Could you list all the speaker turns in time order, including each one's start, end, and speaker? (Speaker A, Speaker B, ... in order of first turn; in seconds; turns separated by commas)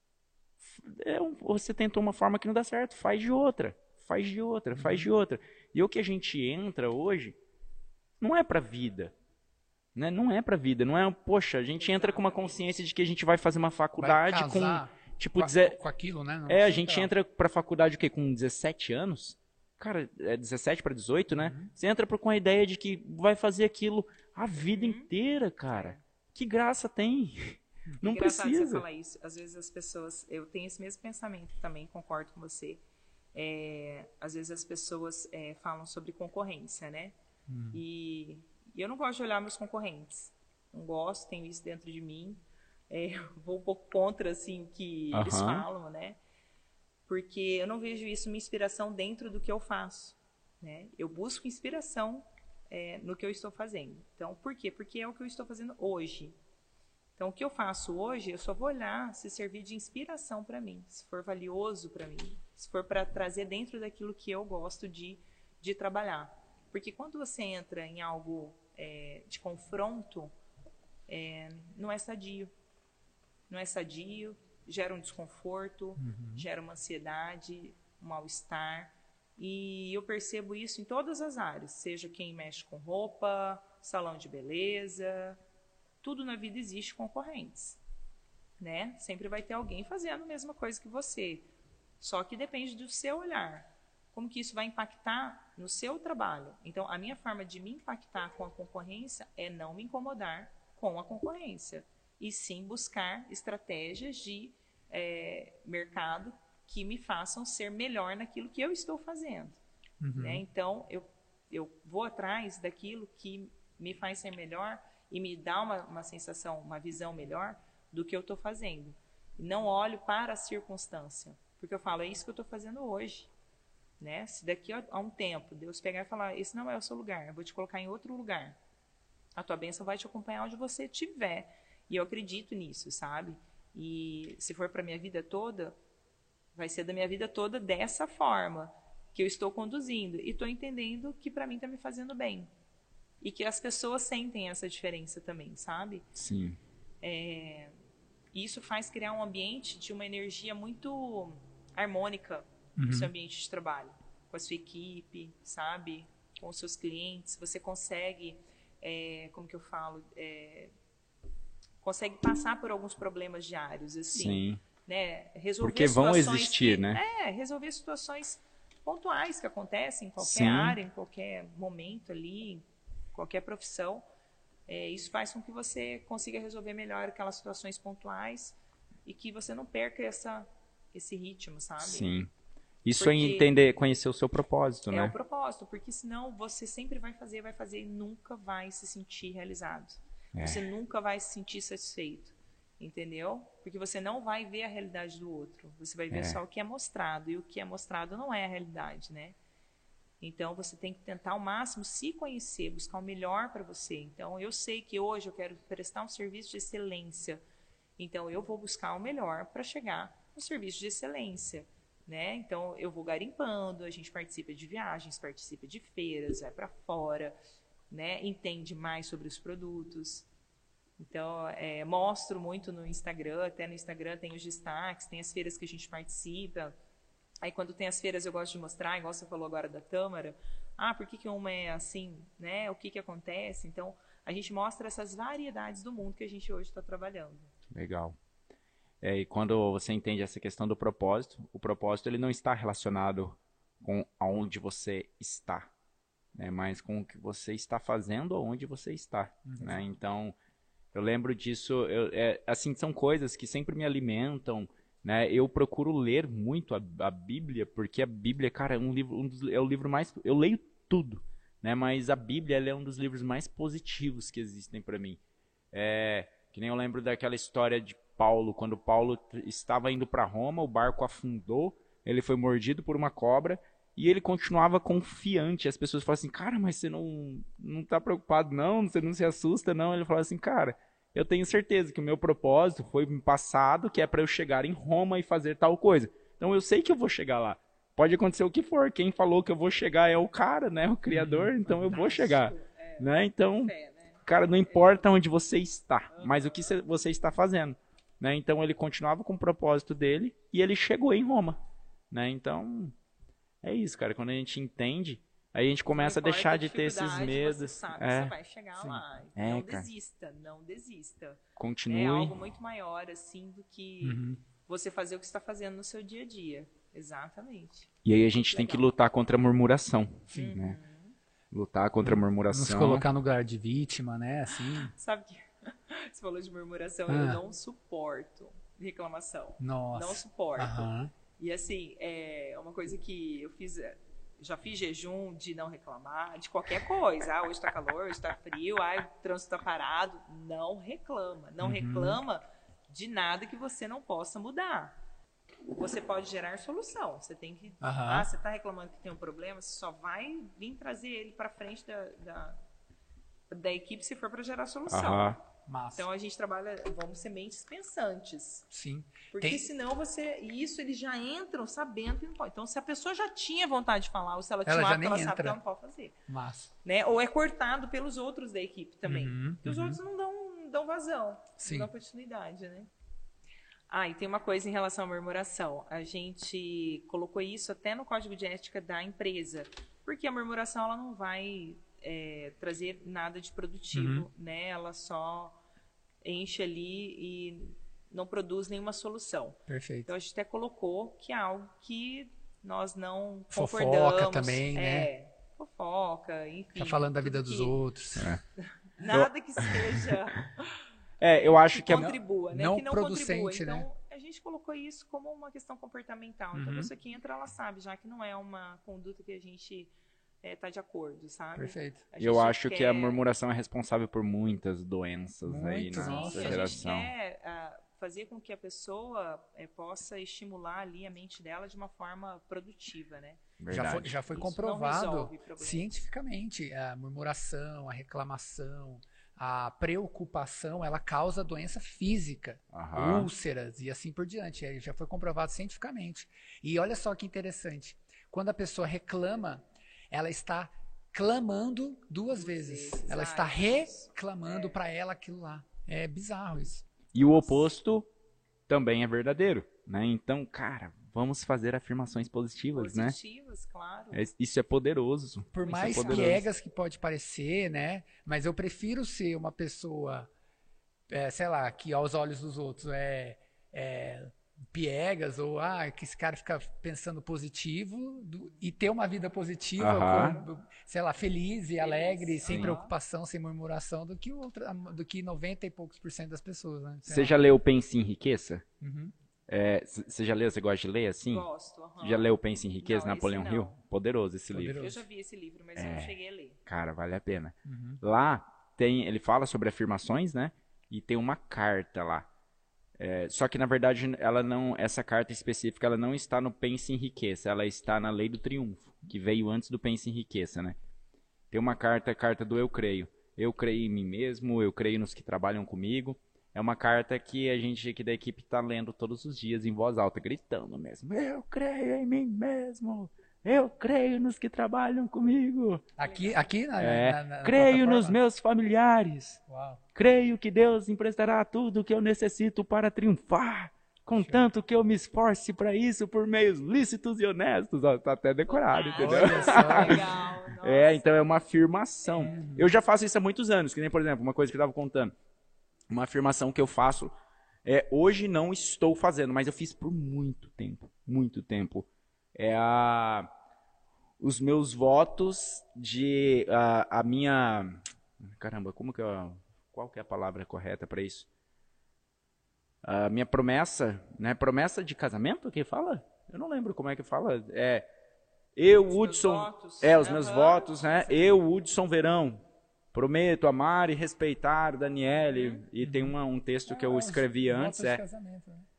Speaker A: 0.6-7.4, Speaker B: 4.7-5.1, Speaker A: 8.2-9.1, Speaker A: 9.9-15.8, Speaker C: 11.8-12.6, Speaker B: 14.0-17.1, Speaker A: 16.5-28.9, Speaker B: 21.3-21.7, Speaker C: 24.6-25.1, Speaker C: 25.7-26.0, Speaker C: 28.0-32.8, Speaker C: 33.3-37.1, Speaker B: 37.5-37.8, Speaker C: 37.7-46.2, Speaker A: 45.1-45.6, Speaker C: 47.1-56.4, Speaker C: 57.2-70.3, Speaker C: 71.1-72.5, Speaker C: 73.5-85.4, Speaker B: 76.0-76.5, Speaker C: 86.0-87.8, Speaker C: 88.6-91.5, Speaker C: 92.0-109.6, Speaker B: 110.0-110.4, Speaker C: 110.2-123.3, Speaker C: 124.0-128.6, Speaker C: 129.4-135.8, Speaker C: 136.6-142.5, Speaker C: 143.2-146.0, Speaker A: 146.2-146.6, Speaker C: 147.0-147.7, Speaker C: 148.3-160.7, Speaker B: 152.8-153.1, Speaker C: 161.8-174.1, Speaker A: 164.1-164.6, Speaker A: 165.6-167.0, Speaker A: 170.2-170.8, Speaker C: 174.7-182.2, Speaker A: 181.8-182.3, Speaker A: 182.8-185.1, Speaker C: 183.0-183.5, Speaker C: 184.9-199.4, Speaker A: 190.3-190.6, Speaker A: 196.1-196.4, Speaker C: 200.2-207.4, Speaker C: 208.0-217.4, Speaker C: 217.9-220.3, Speaker C: 221.0-226.7, Speaker C: 227.4-237.5, Speaker A: 237.7-238.2, Speaker A: 239.0-245.7, Speaker A: 246.3-250.3, Speaker B: 249.5-249.8, Speaker A: 250.9-265.2, Speaker A: 265.7-293.7, Speaker B: 291.1-292.0, Speaker C: 291.9-295.0, Speaker A: 294.2-301.6, Speaker C: 296.1-296.6, Speaker A: 302.1-302.9, Speaker A: 303.6-308.3, Speaker C: 305.9-317.9, Speaker B: 308.8-309.0, Speaker A: 309.4-309.9, Speaker A: 311.6-312.4, Speaker B: 314.0-314.4, Speaker A: 318.1-320.8, Speaker C: 318.5-318.9, Speaker C: 320.3-321.1, Speaker A: 321.5-323.1, Speaker B: 322.0-324.9, Speaker C: 324.5-345.0, Speaker B: 327.1-327.4, Speaker B: 329.6-331.1, Speaker B: 341.6-342.2, Speaker C: 345.7-352.6, Speaker B: 347.8-348.3, Speaker C: 353.5-355.4, Speaker A: 354.9-355.4, Speaker B: 355.7-356.1, Speaker C: 356.0-358.7, Speaker B: 358.7-359.6, Speaker C: 359.3-366.2, Speaker B: 364.7-365.6, Speaker B: 366.3-366.7, Speaker C: 366.8-372.9, Speaker B: 369.1-370.0, Speaker B: 371.6-371.9, Speaker C: 373.9-385.6, Speaker B: 383.9-384.3, Speaker C: 386.2-397.8, Speaker B: 389.7-390.1, Speaker B: 393.5-395.1, Speaker B: 396.8-398.4, Speaker C: 398.6-413.2, Speaker A: 399.1-400.0, Speaker A: 401.2-402.2, Speaker B: 401.8-403.9, Speaker B: 406.5-406.9, Speaker B: 411.6-412.0, Speaker A: 412.2-417.1, Speaker B: 415.5-416.8, Speaker C: 416.0-423.4, Speaker A: 423.6-424.1, Speaker B: 423.7-446.9, Speaker C: 424.3-425.9, Speaker A: 432.7-433.3, Speaker C: 442.3-444.8, Speaker A: 447.1-448.1, Speaker A: 448.7-453.2, Speaker C: 452.8-454.3, Speaker A: 454.1-456.4, Speaker B: 455.5-460.3, Speaker C: 455.6-456.4, Speaker B: 461.1-477.4, Speaker A: 469.8-470.4, Speaker C: 471.8-472.9, Speaker A: 472.5-472.8, Speaker A: 477.1-478.6, Speaker B: 478.8-479.1, Speaker A: 479.5-481.5, Speaker C: 481.3-483.8, Speaker A: 482.0-484.8, Speaker B: 484.5-485.0, Speaker C: 484.8-486.6, Speaker A: 485.8-486.1, Speaker A: 486.7-492.3, Speaker B: 487.7-488.0, Speaker A: 493.0-500.8, Speaker A: 501.5-515.9, Speaker B: 516.0-518.2, Speaker C: 516.0-516.5, Speaker A: 516.8-519.4, Speaker B: 519.5-519.8, Speaker A: 520.0-535.1, Speaker C: 528.5-531.3, Speaker B: 529.0-530.2, Speaker C: 532.0-532.4, Speaker B: 532.2-532.7, Speaker A: 535.9-537.1, Speaker A: 537.6-543.3, Speaker A: 544.2-551.3, Speaker A: 552.8-557.9, Speaker A: 558.6-562.4, Speaker C: 558.7-561.4, Speaker A: 562.9-568.0, Speaker C: 565.3-565.6, Speaker B: 565.8-568.7